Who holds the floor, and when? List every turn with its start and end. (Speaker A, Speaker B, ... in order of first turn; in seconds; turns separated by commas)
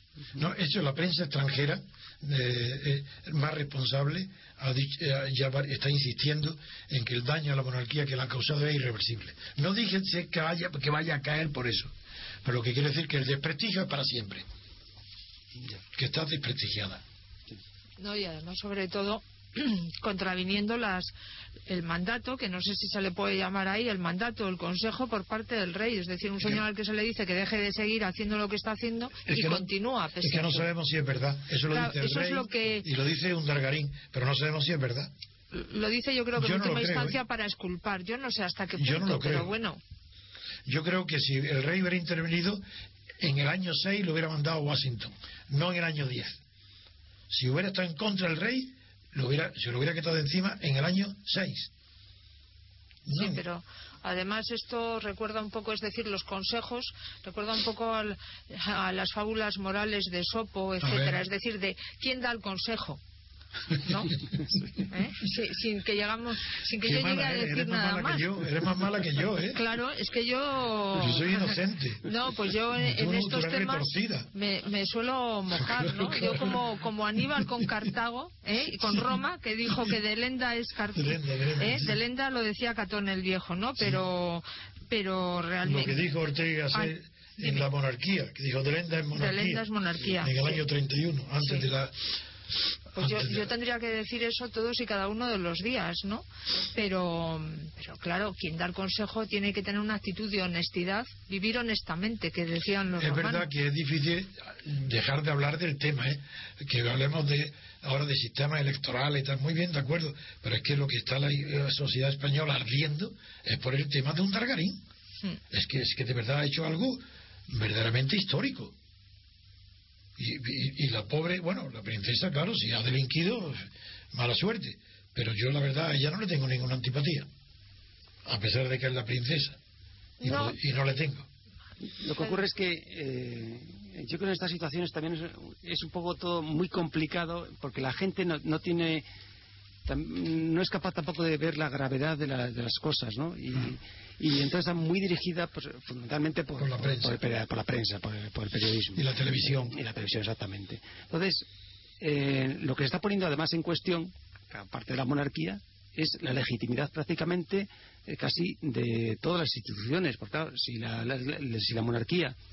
Speaker A: 0.3-11.9, Speaker A: 12.4-14.4, Speaker A: 15.9-17.0, Speaker B: 18.0-21.1, Speaker B: 21.7-30.7, Speaker A: 29.3-29.7, Speaker A: 30.2-35.1, Speaker B: 31.7-32.9, Speaker B: 35.5-39.8, Speaker A: 36.4-37.2, Speaker A: 38.8-39.5, Speaker A: 40.6-42.6, Speaker A: 43.2-46.4, Speaker A: 47.3-51.7, Speaker A: 53.0-53.4, Speaker B: 53.1-63.0, Speaker A: 60.8-61.2, Speaker B: 63.8-64.1, Speaker B: 64.9-68.3, Speaker A: 66.8-69.6, Speaker B: 69.5-86.0, Speaker A: 70.9-72.1, Speaker A: 72.8-74.3, Speaker A: 75.6-76.6, Speaker A: 80.9-82.0, Speaker A: 85.6-92.0, Speaker B: 86.7-87.6, Speaker B: 89.1-90.6, Speaker A: 92.9-93.5, Speaker B: 93.0-103.5, Speaker A: 103.0-114.8, Speaker A: 115.5-118.7, Speaker A: 120.2-127.3, Speaker A: 128.2-129.6, Speaker B: 130.2-130.6, Speaker A: 130.2-131.3, Speaker C: 131.8-139.0, Speaker C: 139.8-151.4, Speaker A: 146.6-147.2, Speaker A: 148.9-149.8, Speaker C: 152.0-162.3